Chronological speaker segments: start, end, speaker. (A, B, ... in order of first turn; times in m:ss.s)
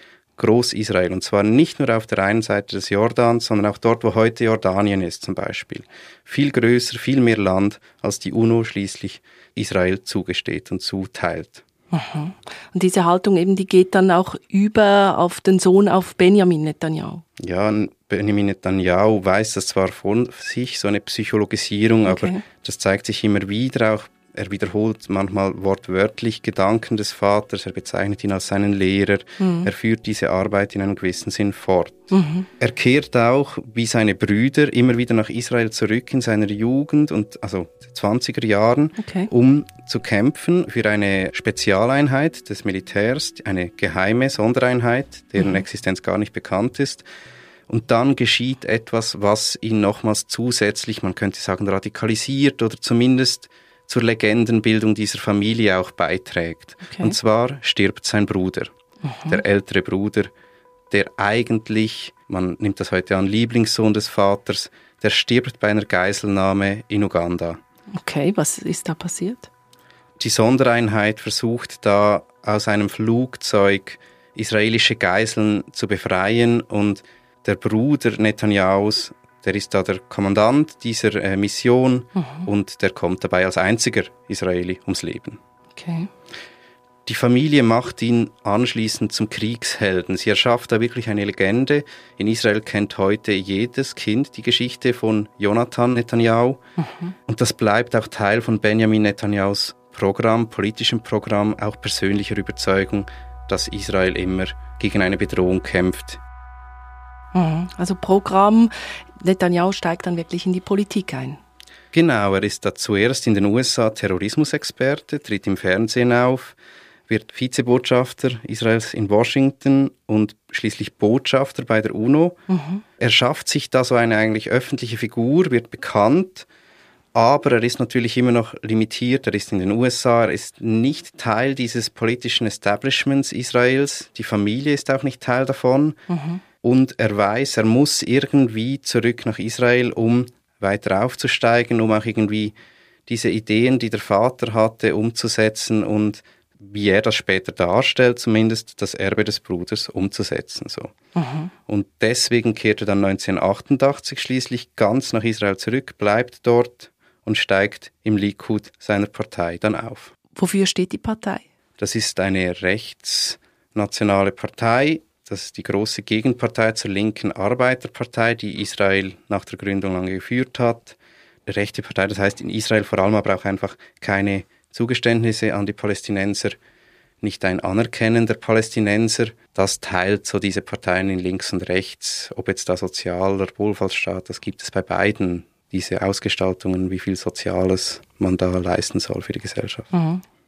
0:00.4-0:11.6 A
0:11.9-0:17.2 B
0:17.4-0:47.1 A
0:22.1-0:22.4 B
0:29.4-0:29.7 B
0:32.1-0:32.5 B
0:39.0-0:39.3 B
0:47.7-0:58.7 A
0:56.9-0:57.2 B
0:59.0-0:59.4 B
0:59.3-1:00.3 A
1:00.9-1:07.6 A
1:07.9-1:09.5 B
1:10.2-1:25.4 A
1:22.2-1:22.5 B
1:25.8-1:26.1 B
1:27.1-1:36.6 A
1:36.8-1:37.1 B
1:37.3-1:46.2 A
1:47.3-1:51.4 B
1:51.9-1:56.6 A
1:57.1-2:02.4 A
2:02.5-2:02.8 B
2:03.0-2:06.5 A
2:07.2-2:16.0 A
2:16.1-2:16.4 B
2:16.6-2:22.6 A
2:23.1-2:30.9 A
2:31.2-2:31.5 B
2:31.7-2:40.1 A
2:40.4-2:41.5 B
2:41.8-2:56.6 A
2:57.2-3:09.9 A
3:09.9-3:10.2 B